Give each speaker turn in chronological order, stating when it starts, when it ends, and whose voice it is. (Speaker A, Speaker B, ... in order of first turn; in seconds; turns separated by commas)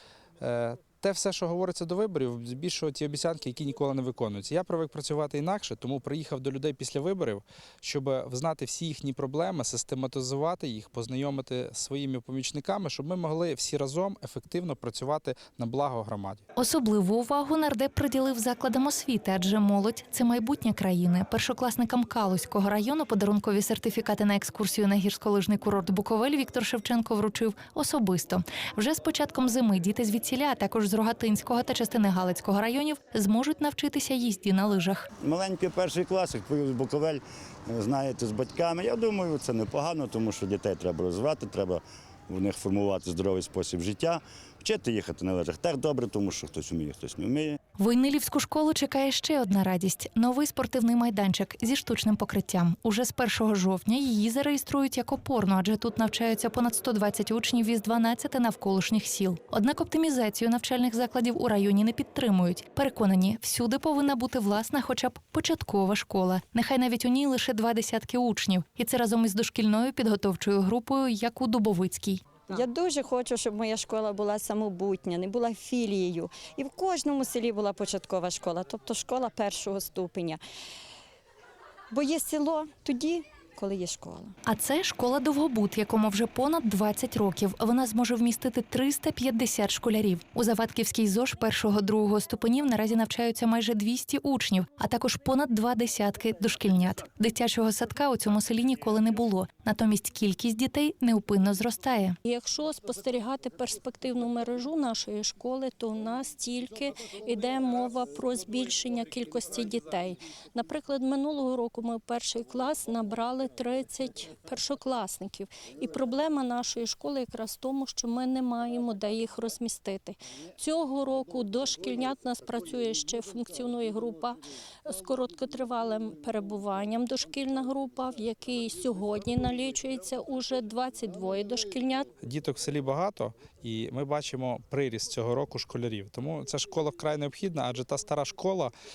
Speaker A: 0.4-16.4, Speaker B: 16.6-35.1, Speaker C: 35.2-47.5, Speaker B: 47.8-72.2, Speaker D: 72.5-80.4, Speaker D: 81.9-84.3, Speaker B: 84.5-102.2, Speaker E: 102.2-132.1, Speaker A: 132.2-138.7